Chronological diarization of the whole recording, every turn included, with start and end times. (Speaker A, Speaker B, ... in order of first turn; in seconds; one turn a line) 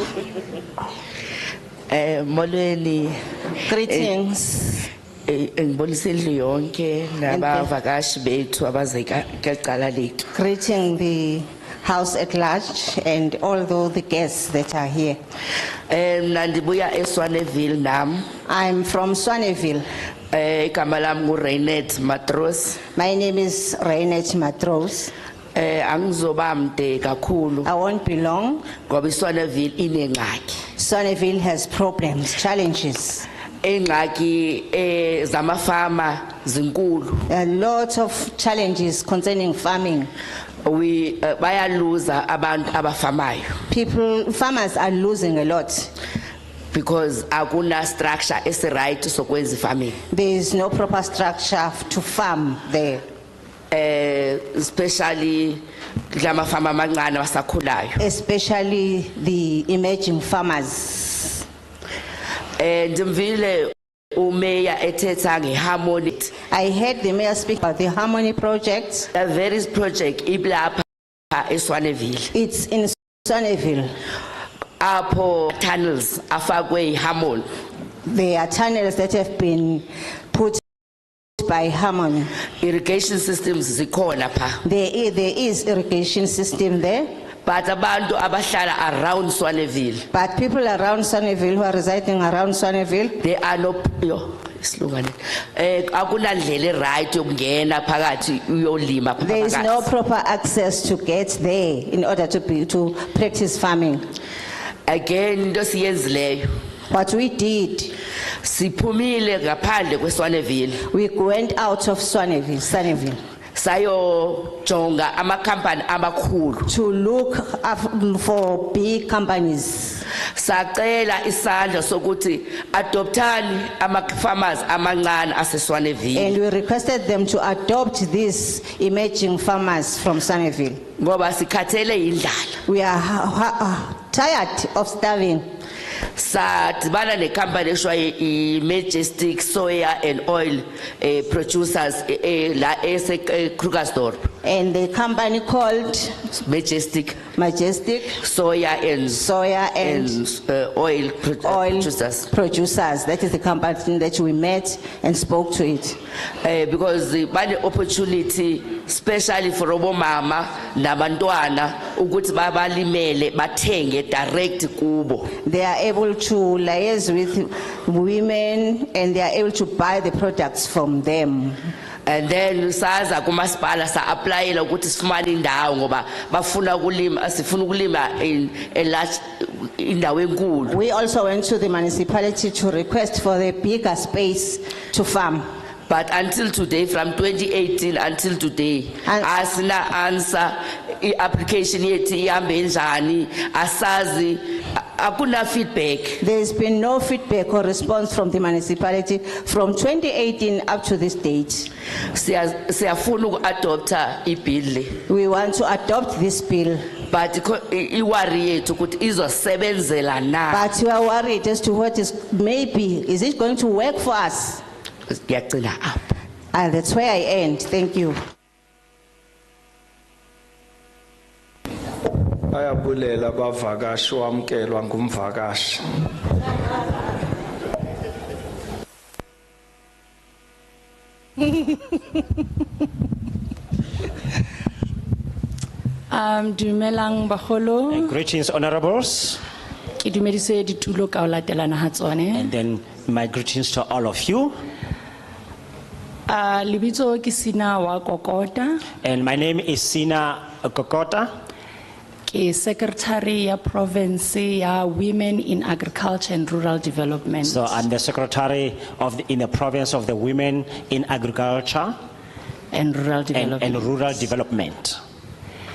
Speaker A: 1.9-3.2
Speaker B: 3.7-4.9
Speaker A: 3.7-4.2
Speaker A: 5.3-10.3
Speaker B: 7.3-7.7
Speaker B: 10.3-15.2
Speaker A: 15.9-18.3
Speaker B: 18.5-19.9
Speaker A: 20.3-22.8
Speaker B: 22.9-25.1
Speaker A: 25.6-27.7
Speaker B: 27.6-28.7
Speaker A: 28.9-30.6
Speaker B: 30.8-33.3
Speaker A: 33.6-37.3
Speaker B: 37.3-40.1
Speaker A: 40.6-43.6
Speaker B: 43.7-45.9
Speaker A: 46.7-50.0
Speaker B: 50.1-53.0
Speaker A: 53.7-58.1
Speaker B: 58.0-61.5
Speaker A: 62.6-66.3
Speaker B: 66.5-69.1
Speaker A: 69.1-72.3
Speaker B: 72.3-73.9
Speaker A: 74.8-77.5
Speaker B: 78.1-80.6
Speaker B: 81.4-82.3
Speaker A: 82.6-84.6
Speaker B: 84.6-87.1
Speaker A: 87.5-90.0
Speaker B: 90.1-93.2
Speaker A: 93.2-99.9
Speaker B: 99.2-104.0
Speaker A: 104.9-106.5
Speaker B: 106.9-107.9
Speaker A: 108.4-110.8
Speaker B: 110.9-113.2
Speaker A: 113.5-116.7
Speaker B: 116.7-120.0
Speaker A: 120.3-126.4
Speaker B: 126.2-130.8
Speaker A: 131.0-132.6
Speaker B: 132.7-135.5
Speaker A: 136.2-144.3
Speaker B: 144.4-146.2
Speaker A: 146.3-147.2
Speaker B: 147.3-148.2
Speaker A: 148.2-149.3
Speaker B: 149.1-150.2
Speaker A: 149.8-152.3
Speaker B: 151.4-156.0
Speaker A: 156.4-165.3
Speaker B: 165.4-171.6
Speaker A: 172.1-180.8
Speaker B: 180.7-185.4
Speaker A: 185.9-196.2
Speaker B: 196.2-201.7
Speaker A: 202.1-205.0
Speaker B: 205.1-206.8
Speaker A: 207.1-210.7
Speaker B: 210.5-214.6
Speaker A: 215.1-216.2
Speaker B: 216.5-218.2
Speaker C: 222.5-225.8
Speaker D: 236.1-238.2
Speaker E: 237.9-239.4
Speaker D: 240.0-242.5
Speaker E: 242.3-244.5
Speaker D: 246.3-248.8
Speaker E: 249.0-251.3
Speaker D: 252.3-257.8
Speaker E: 257.4-261.9
Speaker D: 262.7-264.2
Speaker E: 263.3-265.0